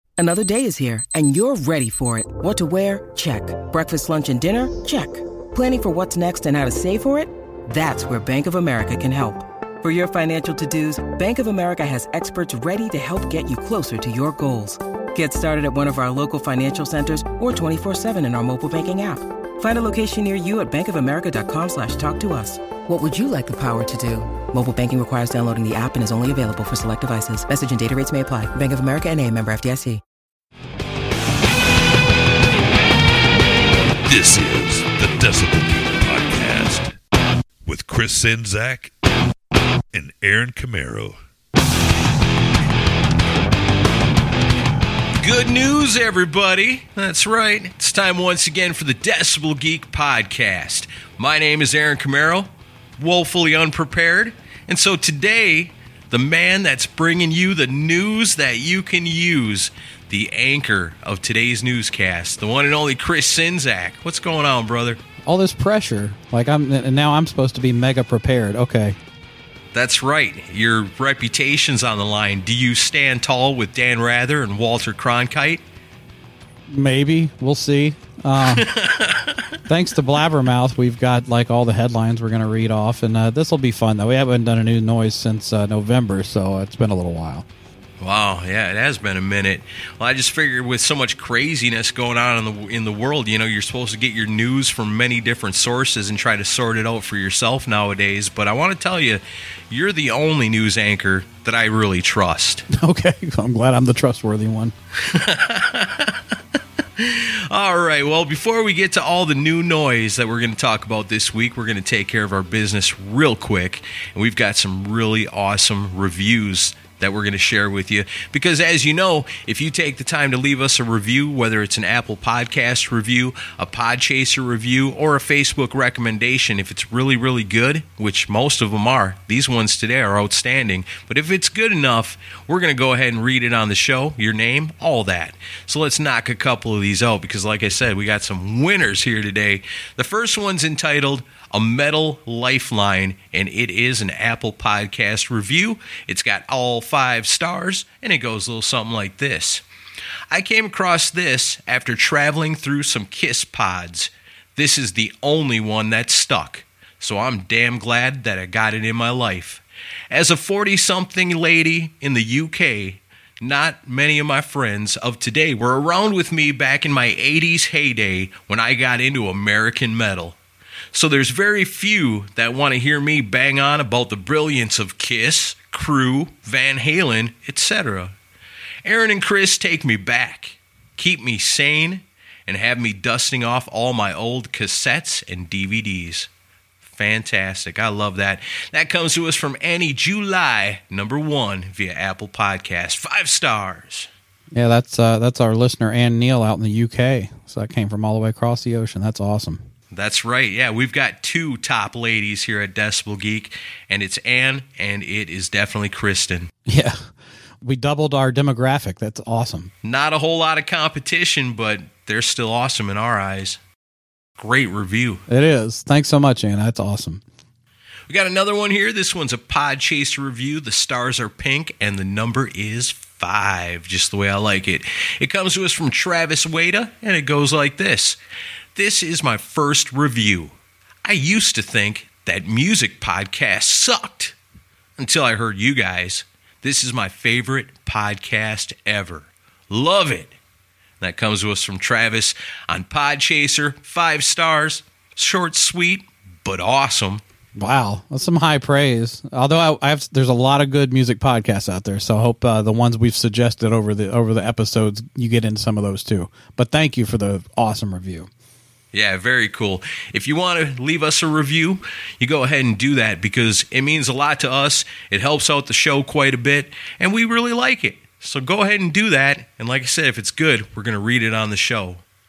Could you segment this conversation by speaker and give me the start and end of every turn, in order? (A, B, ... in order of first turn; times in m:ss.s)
0:00.2-0:30.0 A
0:34.0-0:37.0 B
0:37.6-0:38.9 B
0:39.9-0:41.2 B
0:45.2-1:05.0 C
1:05.2-1:09.0 D
1:09.7-1:15.6 C
1:16.7-1:18.7 D
1:18.4-1:19.6 C
1:19.7-1:27.4 D
1:28.0-1:42.6 C
1:42.7-1:44.7 D
1:45.0-2:29.6 C
2:30.3-2:50.4 C
2:50.9-2:58.1 C
2:58.8-3:06.3 C
3:06.8-3:14.1 C
3:14.5-3:19.6 D
3:19.9-3:26.5 C
3:26.7-3:27.0 D
3:27.6-3:29.7 D
3:29.8-3:33.6 C
3:34.4-3:35.2 C
3:35.3-3:37.2 D
3:38.1-3:48.2 C
3:48.7-3:54.4 C
3:55.0-4:00.3 C
4:01.0-4:07.2 C
4:07.6-4:18.3 D
4:18.9-4:32.0 C